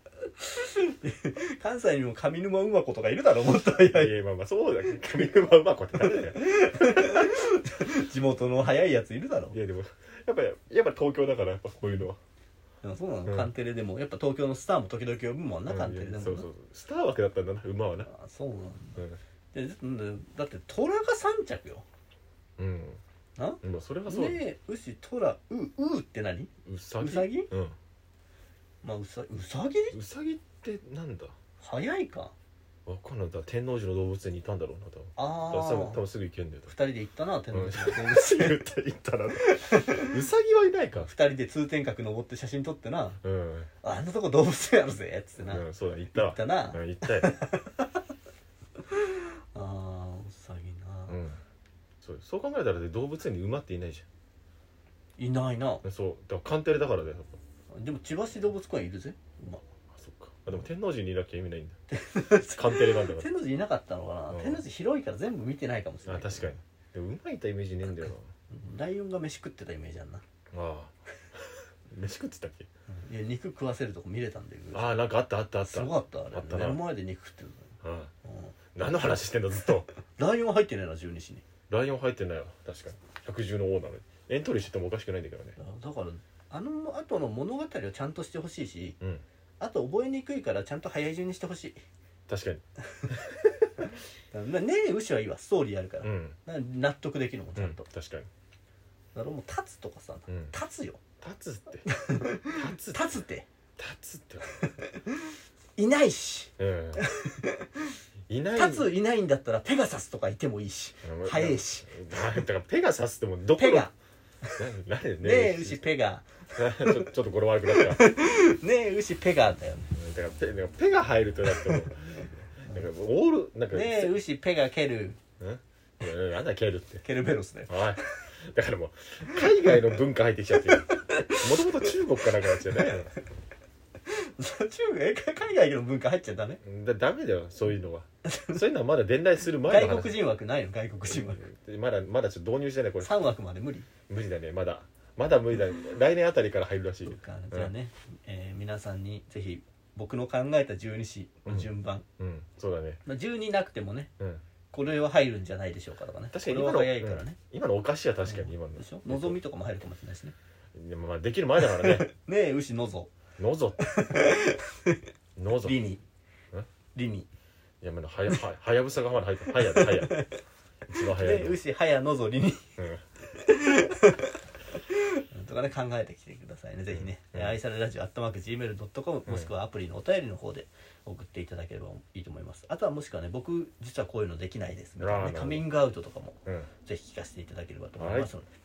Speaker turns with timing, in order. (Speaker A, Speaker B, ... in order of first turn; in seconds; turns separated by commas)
Speaker A: 0.4-4.1, Speaker B: 3.9-7.1, Speaker A: 6.1-9.6, Speaker B: 9.5-12.2, Speaker A: 12.8-16.5, Speaker B: 15.7-18.1, Speaker A: 18.1-19.0, Speaker A: 19.5-21.9, Speaker B: 22.6-23.0, Speaker A: 23.4-27.5, Speaker B: 23.6-24.4, Speaker B: 26.7-27.8, Speaker A: 28.8-29.9, Speaker B: 29.9-31.3, Speaker A: 31.6-32.3, Speaker B: 32.9-36.7, Speaker A: 35.2-36.0, Speaker A: 36.7-38.7, Speaker B: 37.5-41.1, Speaker A: 39.5-40.1, Speaker A: 41.0-43.2, Speaker B: 43.2-43.7, Speaker A: 43.8-48.0, Speaker B: 45.5-47.4, Speaker A: 48.9-51.2, Speaker B: 51.1-51.4, Speaker B: 52.0-54.0, Speaker A: 55.2-55.8, Speaker B: 55.8-57.4, Speaker A: 57.7-59.6, Speaker B: 60.0-61.8, Speaker A: 61.9-66.6, Speaker B: 62.3-63.3, Speaker B: 64.3-64.6, Speaker B: 66.1-68.3, Speaker A: 68.5-70.2, Speaker B: 70.5-70.9, Speaker B: 71.9-72.7, Speaker A: 72.9-74.9, Speaker B: 74.7-76.8, Speaker A: 75.7-77.7, Speaker B: 77.8-78.1, Speaker A: 78.3-78.5, Speaker B: 78.8-79.9, Speaker A: 80.2-81.5, Speaker B: 81.7-85.6, Speaker A: 85.6-89.0, Speaker A: 89.6-91.8, Speaker B: 92.3-93.3, Speaker A: 94.3-97.9, Speaker B: 96.0-96.4, Speaker B: 97.6-98.3, Speaker A: 99.2-101.0, Speaker B: 100.3-100.5, Speaker B: 101.2-101.9, Speaker A: 101.9-103.5, Speaker B: 102.4-103.2, Speaker B: 103.8-104.5, Speaker A: 104.6-107.9, Speaker B: 106.6-107.0, Speaker B: 108.3-109.0, Speaker A: 108.6-111.9, Speaker B: 111.0-113.9, Speaker A: 113.6-113.9, Speaker B: 114.6-115.8, Speaker A: 115.2-117.0, Speaker B: 116.5-118.0, Speaker A: 117.7-119.9, Speaker B: 119.9-124.2, Speaker A: 121.5-121.9, Speaker A: 123.7-125.2, Speaker B: 125.4-127.0, Speaker A: 127.0-128.0, Speaker B: 127.7-133.1, Speaker A: 130.7-131.5, Speaker A: 132.5-133.0, Speaker A: 134.1-136.6, Speaker B: 136.6-140.2, Speaker A: 138.2-138.6, Speaker A: 139.7-141.4, Speaker B: 141.1-143.2, Speaker A: 143.0-143.9, Speaker B: 144.1-147.7, Speaker A: 147.1-152.1, Speaker B: 151.5-153.0, Speaker A: 153.1-154.1, Speaker A: 154.7-157.4, Speaker B: 156.3-159.4, Speaker A: 158.2-160.3, Speaker B: 160.8-162.1, Speaker A: 161.6-163.1, Speaker B: 163.4-163.9, Speaker A: 163.8-165.0, Speaker B: 165.4-165.8, Speaker A: 165.6-166.0, Speaker A: 166.9-167.3, Speaker B: 167.8-170.3, Speaker A: 169.6-170.4, Speaker B: 170.9-171.6, Speaker A: 171.1-172.7, Speaker A: 173.3-174.3, Speaker A: 174.9-188.5, Speaker B: 176.9-177.6, Speaker B: 185.0-185.7, Speaker B: 188.0-188.3